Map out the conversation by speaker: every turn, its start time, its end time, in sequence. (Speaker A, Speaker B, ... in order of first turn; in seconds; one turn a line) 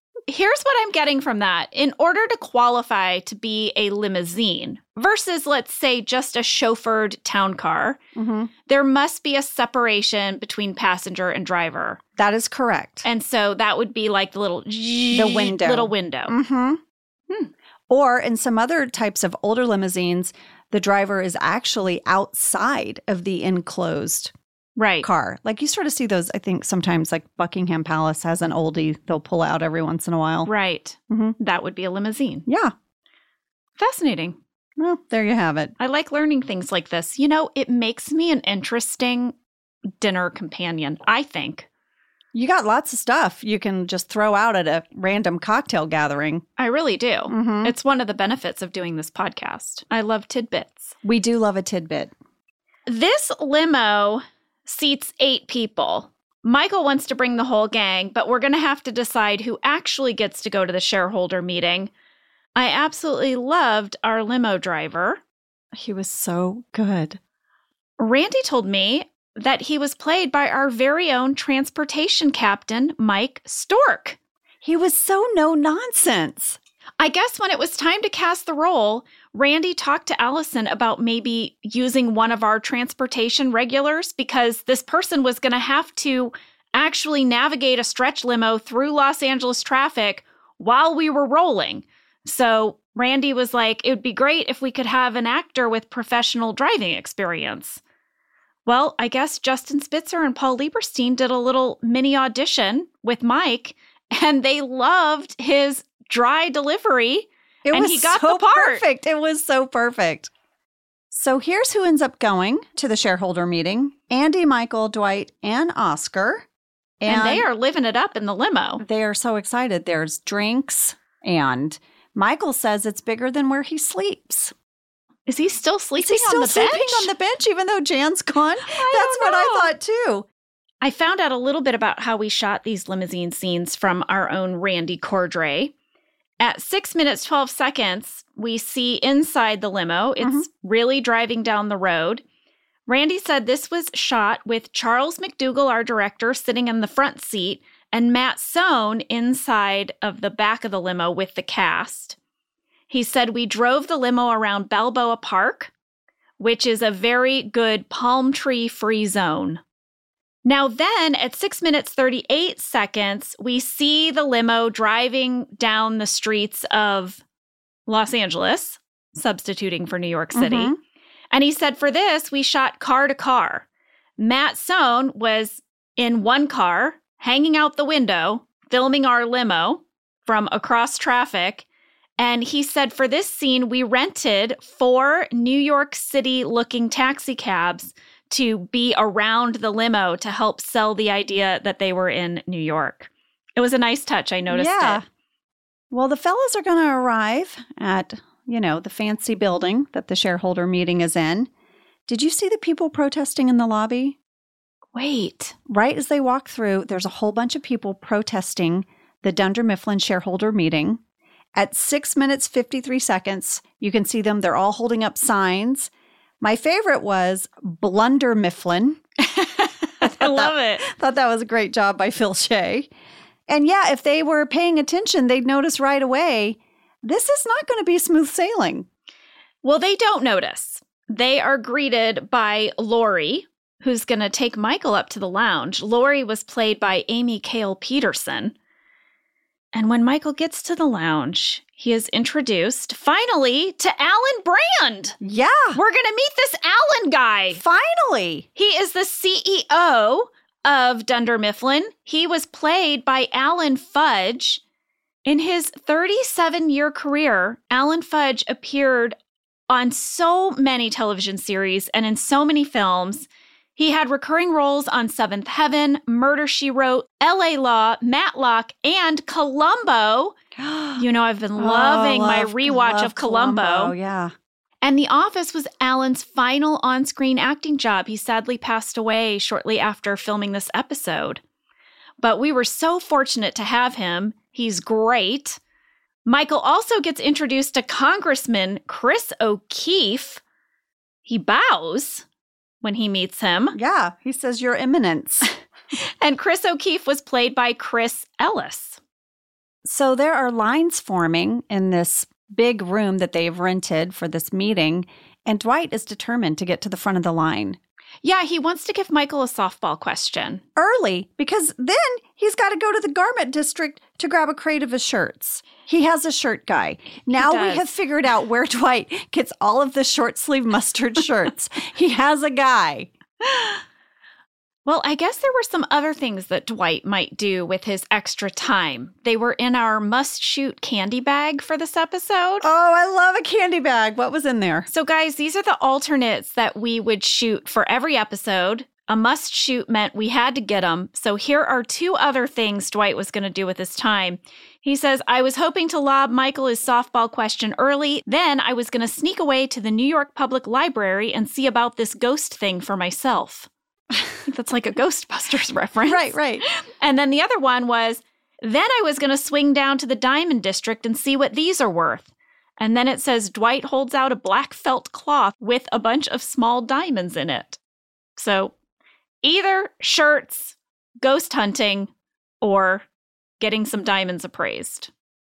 Speaker A: 0.3-8.0
Speaker B: 8.2-8.5
Speaker A: 8.7-12.0
Speaker B: 12.2-13.1
Speaker A: 13.1-16.3
Speaker B: 15.1-16.8
Speaker B: 17.9-24.3
Speaker A: 24.8-25.1
Speaker B: 25.0-30.5
Speaker A: 30.5-32.5
Speaker B: 31.1-31.4
Speaker B: 32.5-32.7
Speaker A: 33.8-34.4
Speaker B: 34.8-35.7
Speaker A: 35.8-39.3
Speaker A: 40.0-41.7
Speaker B: 42.3-46.4
Speaker A: 46.6-51.0
Speaker B: 47.3-47.7
Speaker B: 51.0-52.1
Speaker A: 52.9-61.9
Speaker A: 62.5-65.2
Speaker B: 65.7-67.2
Speaker A: 68.0-74.2
Speaker B: 74.6-76.6
Speaker A: 77.0-97.8
Speaker A: 98.7-108.8
Speaker B: 107.7-110.3
Speaker B: 111.1-116.5
Speaker B: 117.0-117.5
Speaker A: 117.1-118.8
Speaker B: 118.8-124.5
Speaker A: 125.3-127.1
Speaker B: 126.0-130.3
Speaker A: 128.7-129.7
Speaker A: 130.8-135.7
Speaker A: 136.4-142.2
Speaker A: 142.9-152.2
Speaker A: 152.9-155.7
Speaker A: 156.4-159.6
Speaker A: 160.4-167.2
Speaker A: 167.9-170.7
Speaker B: 170.3-170.8
Speaker A: 171.3-173.7
Speaker A: 174.2-181.6
Speaker A: 182.2-195.0
Speaker B: 194.5-195.0
Speaker B: 195.9-201.5
Speaker B: 202.1-204.2
Speaker A: 204.9-205.6
Speaker B: 205.7-211.0
Speaker B: 211.6-215.9
Speaker B: 216.4-219.0
Speaker A: 219.2-220.8
Speaker B: 220.0-222.9
Speaker B: 223.5-228.9
Speaker A: 229.6-238.5
Speaker A: 239.7-245.2
Speaker B: 245.2-245.8
Speaker A: 245.7-247.6
Speaker B: 247.5-248.5
Speaker A: 248.6-254.6
Speaker A: 255.2-259.2
Speaker A: 259.7-270.4
Speaker B: 270.6-271.0
Speaker A: 271.0-273.9
Speaker B: 271.6-274.3
Speaker A: 274.8-281.4
Speaker A: 282.2-285.6
Speaker A: 286.3-290.4
Speaker A: 291.3-292.2
Speaker A: 292.8-293.8
Speaker B: 293.7-295.5
Speaker A: 296.2-299.0
Speaker B: 299.9-307.8
Speaker A: 308.2-310.6
Speaker B: 310.8-323.1
Speaker A: 317.3-317.9
Speaker A: 323.4-323.8
Speaker A: 324.9-332.6
Speaker B: 332.6-334.9
Speaker A: 334.9-353.7
Speaker A: 354.5-356.4
Speaker B: 356.1-356.6
Speaker A: 357.0-367.8
Speaker A: 368.4-368.7
Speaker A: 369.4-372.1
Speaker A: 372.6-373.1
Speaker A: 373.6-375.1